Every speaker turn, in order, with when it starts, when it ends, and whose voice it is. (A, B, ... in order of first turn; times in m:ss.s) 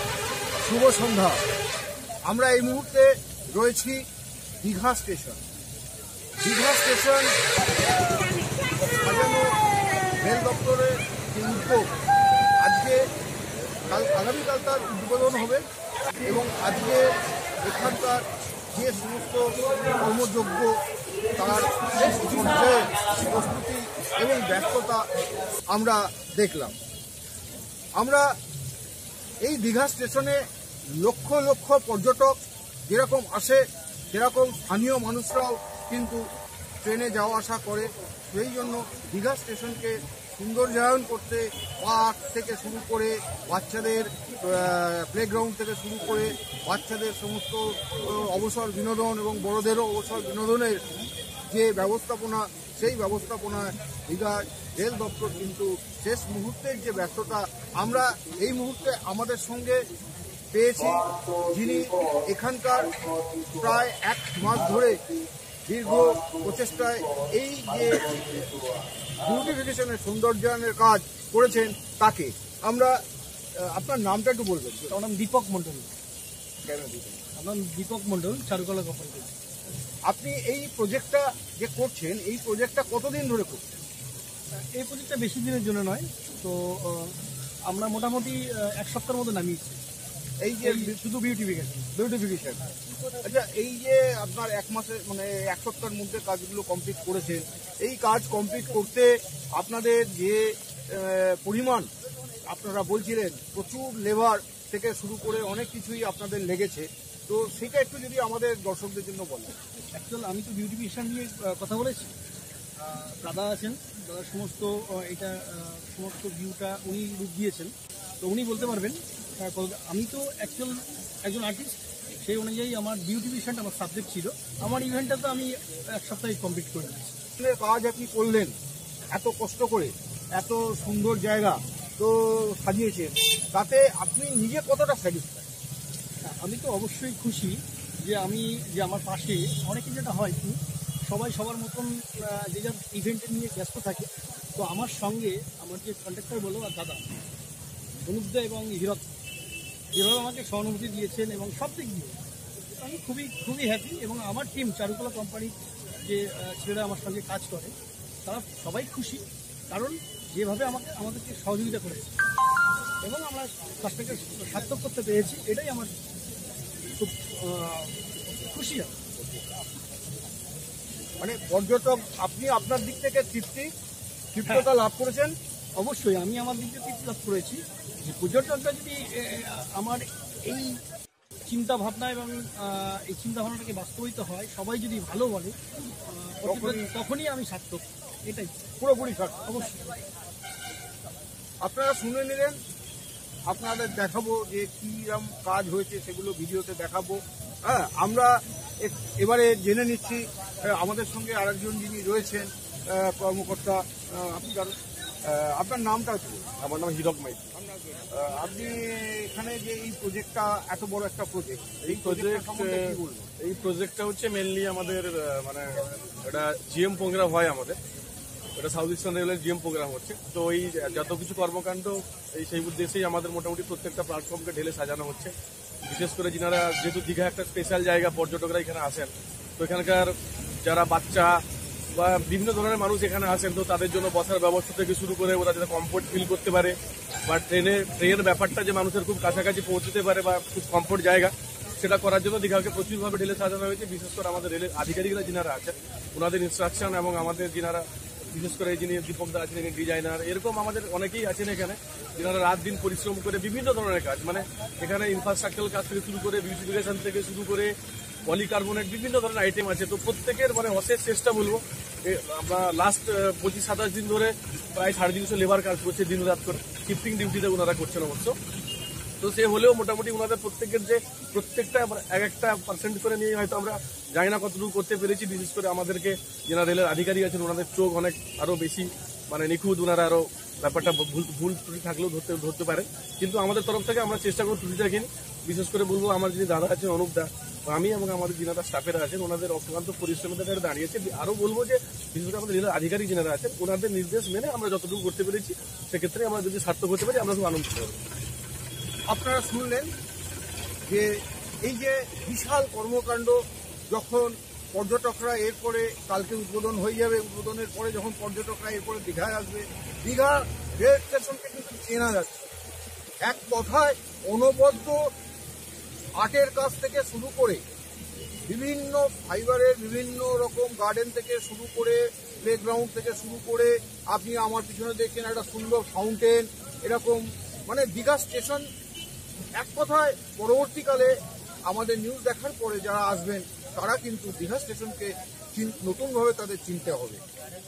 0:00.6-0:01.4 A
0:02.3-0:04.0 A
0:04.6-0:05.4 A
0:06.4-0:07.3 A
0:09.0-0:09.5 A
0:10.2-0:11.9 A
0:12.6-0:13.0 A
0:13.9-0:15.6 A
0:16.2-0:17.1 A
0:17.6-0:18.2 A
0:18.7-0:20.7 A
0:21.4-0:25.0 A
0:25.7-0:26.7 A
0:28.0-0:28.2 A
0:29.4-0:30.4 A
0:31.0-0:32.4 A
0:32.9-0:36.2 A
0:36.8-0:50.9 A
0:51.5-0:59.8 A
1:00.5-1:02.9 A
1:03.5-1:05.0 A
1:05.7-1:08.5 A
1:09.2-1:12.9 A
1:13.6-1:15.0 A
1:14.9-1:15.9 B
1:16.6-1:17.2 A
1:17.4-1:19.3 B
1:20.1-1:23.6 A
1:24.6-1:29.8 B
1:30.4-1:31.0 A
1:30.6-1:31.9 B
1:32.0-1:32.6 A
1:33.2-1:41.9 A
1:42.5-1:49.6 A
1:49.9-1:52.1 B
1:52.8-2:07.2 B
2:07.4-2:08.6 A
2:09.1-2:15.5 A
2:16.2-2:27.0 B
2:28.0-2:29.0 B
2:29.9-2:37.7 B
2:38.2-2:42.1 B
2:43.0-2:45.9 B
2:46.9-2:49.1 B
2:51.2-2:53.7 A
2:54.3-2:55.3 A
2:55.8-3:00.8 B
3:01.5-3:08.6 B
3:06.4-3:06.9 A
3:08.8-3:09.5 A
3:09.5-3:10.0 B
3:11.6-3:12.6 A
3:13.5-3:18.3 A
3:18.8-3:24.8 A
3:25.3-3:26.5 A
3:26.6-3:27.5 C
3:27.9-3:33.3 A
3:31.8-3:37.8 C
3:38.6-3:45.3 C
3:45.8-3:51.4 C
3:52.0-4:17.8 C
4:18.3-4:28.4 C
4:29.2-4:58.0 C
4:59.1-4:59.9 A
5:01.6-5:03.4 A
5:03.9-5:12.5 A
5:13.2-5:15.0 A
5:16.2-5:17.6 A
5:18.5-5:28.7 A
5:29.6-5:31.1 A
5:31.7-5:37.2 A